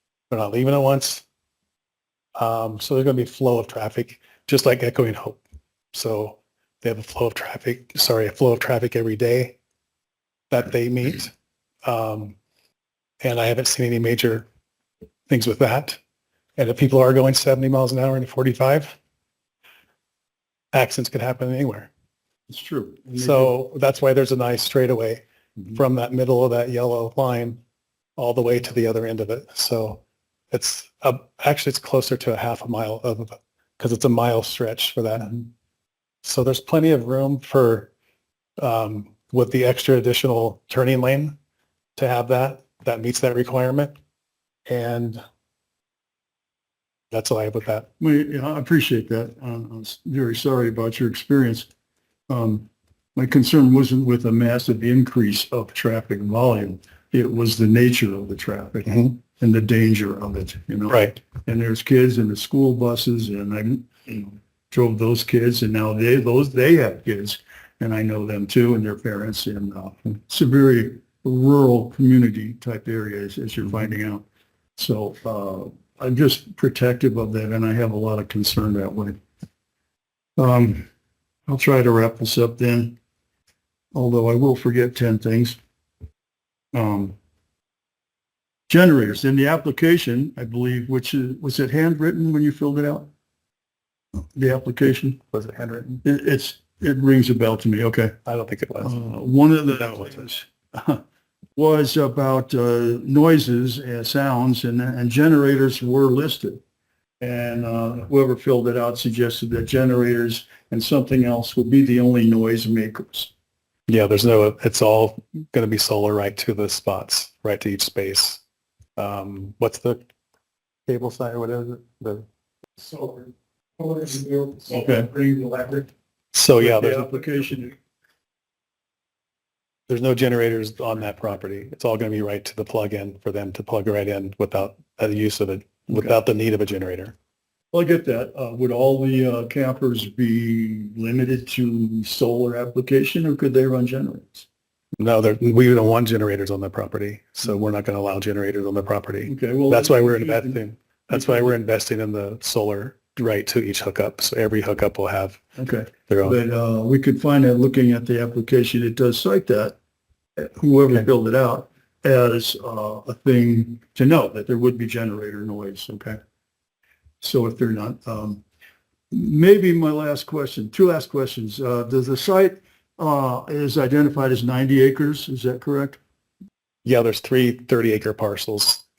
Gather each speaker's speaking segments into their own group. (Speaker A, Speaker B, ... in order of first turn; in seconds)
Speaker A: 0.3-1.2, 2.4-5.4, 5.9-9.6, 10.5-11.3, 11.8-12.4, 13.2-14.5, 15.3-16.0, 16.6-19.0, 20.7-21.9, 23.1-27.6, 28.2-35.4, 36.2-37.9, 38.6-41.4, 42.0-44.0, 44.7-45.2, 47.1-47.9, 60.9-61.2, 95.3-96.0, 98.2-99.0, 99.7-100.3, 113.9-118.4, 119.0-120.0, 120.9-122.3, 122.8-127.1, 129.9-137.2, 145.0-156.4, 176.8-178.8
Speaker B: 22.5-23.6, 48.0-51.7, 52.3-74.2, 74.8-79.2, 80.4-80.9, 81.5-83.0, 83.9-85.6, 86.7-87.2, 88.7-93.1, 94.2-95.2, 96.0-98.2, 98.8-101.0, 101.6-106.6, 107.2-113.3, 124.7-125.1, 126.6-127.8, 137.7-144.5, 149.3-151.5, 155.6-159.8, 160.4-166.2, 167.2-168.4, 169.1-176.0